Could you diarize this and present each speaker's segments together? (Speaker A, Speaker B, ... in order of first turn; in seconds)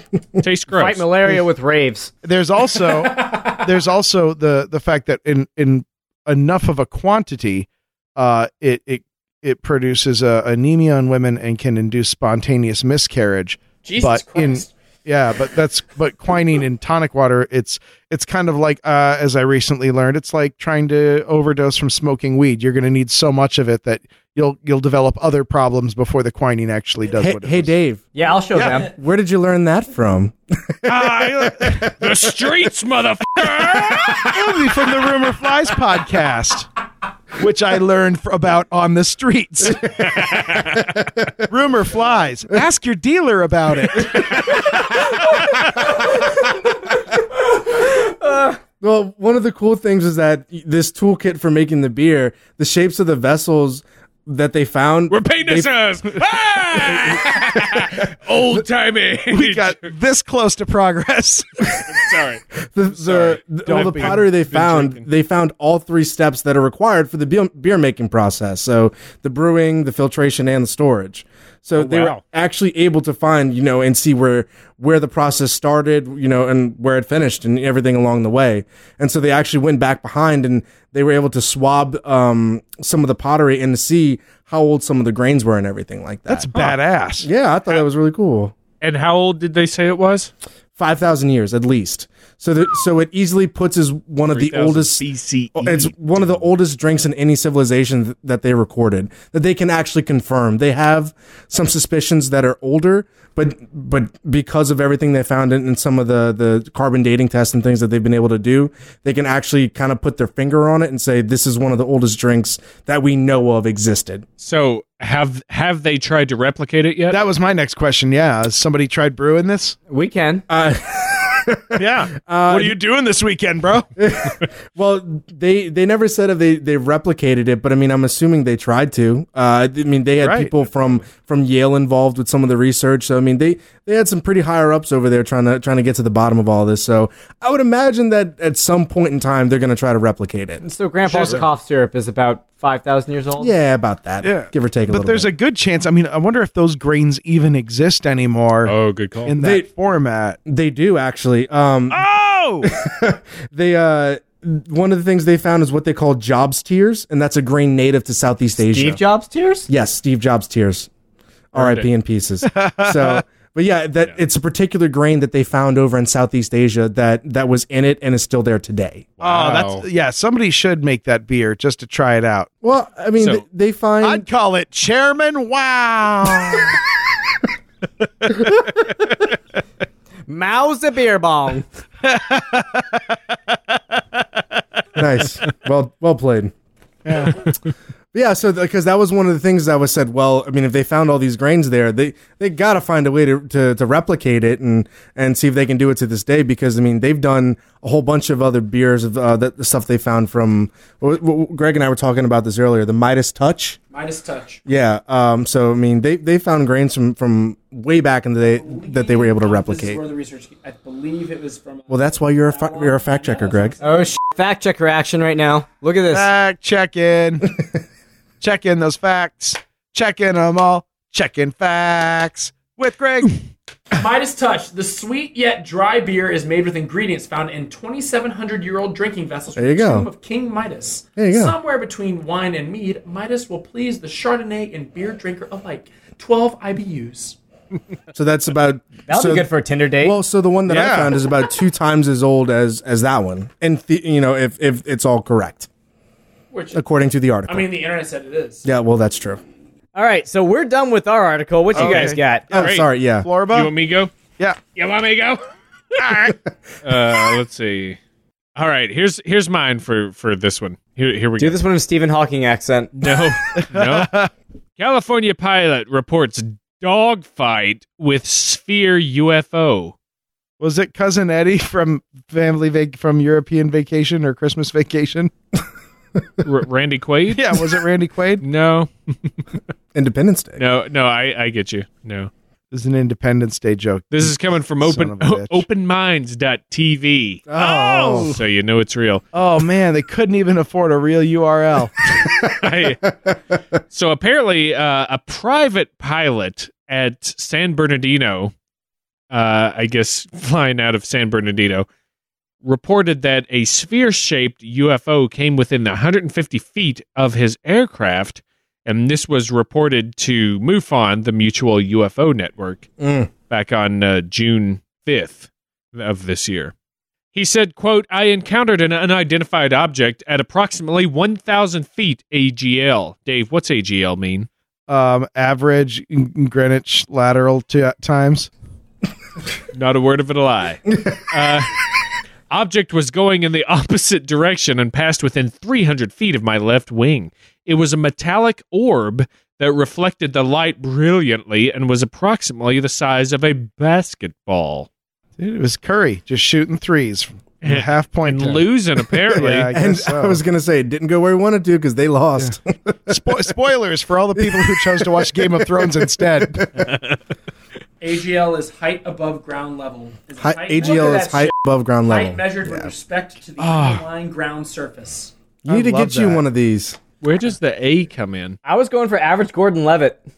Speaker A: 0.4-1.0, 30.9-34.4, 40.0-41.0, 55.1-59.9, 61.9-65.0, 71.8-72.2, 88.8-90.3, 94.3-96.4, 114.4-117.2, 148.6-149.3, 161.5-161.9, 169.2-169.8, 173.2-173.4, 251.8-252.9, 253.5-254.1, 254.7-255.4, 256.8-258.0, 258.6-261.6, 262.9-264.1, 264.8-269.9, 276.4-277.5, 278.4-279.4, 280.6-282.3, 284.1-289.2, 292.6-293.0, 293.9-298.5, 299.3-301.9, 302.6-312.9, 313.5-316.7, 317.3-324.5, 329.7-331.7, 332.5-344.9, 347.6-349.7, 356.9-357.1, 363.6-364.0, 367.2-368.6
Speaker B: 0.7-2.1, 28.1-28.9, 46.1-46.4, 47.6-48.6, 119.9-120.4, 140.6-143.5, 158.6-159.7, 180.3-181.6, 213.8-216.3, 239.1-240.2, 249.9-252.5, 261.4-262.9, 368.6-370.2
Speaker C: 2.2-27.7, 30.9-31.6, 34.2-36.7, 37.4-40.0, 41.5-44.6, 59.3-61.8, 63.3-64.2, 86.3-87.3, 117.1-119.8, 121.8-123.9, 130.2-130.5, 141.1-141.4, 144.2-148.7, 149.2-150.4, 151.9-152.7, 162.4-163.2, 169.2-172.5, 174.0-176.8, 182.0-184.4, 187.1-187.4, 216.1-217.5, 218.4-223.4, 240.7-241.2, 251.7-253.7, 255.9-256.3, 263.6-264.3, 270.6-275.3, 277.3-278.4, 282.7-285.6, 287.7-288.2, 289.3-291.9, 324.9-328.5, 345.4-350.4, 353.1-356.7, 365.6-366.4
Speaker D: 3.2-3.5, 13.8-14.7, 203.9-204.6, 208.4-214.0, 223.9-237.4, 246.5-246.8, 247.5-248.7, 358.0-361.5, 362.0-365.3
Speaker E: 27.1-28.1, 28.6-32.0, 40.4-41.4, 44.0-44.8, 48.8-55.7, 56.8-57.8, 62.7-86.5, 87.2-88.5, 90.8-95.0, 95.5-114.2, 120.5-122.8, 124.0-140.6, 143.4-145.3, 149.4-149.6, 150.4-152.0, 152.6-159.0, 159.7-160.9, 161.5-169.1, 172.6-174.2, 184.9-186.5, 188.1-203.8, 204.7-210.0, 211.9-213.8, 229.6-230.1, 231.2-231.5, 238.1-245.7, 246.7-247.7, 248.7-249.4, 252.5-253.3, 279.9-280.6, 287.5-288.4, 313.0-313.3, 349.7-353.1, 354.4-356.6, 360.4-362.9, 365.6-367.0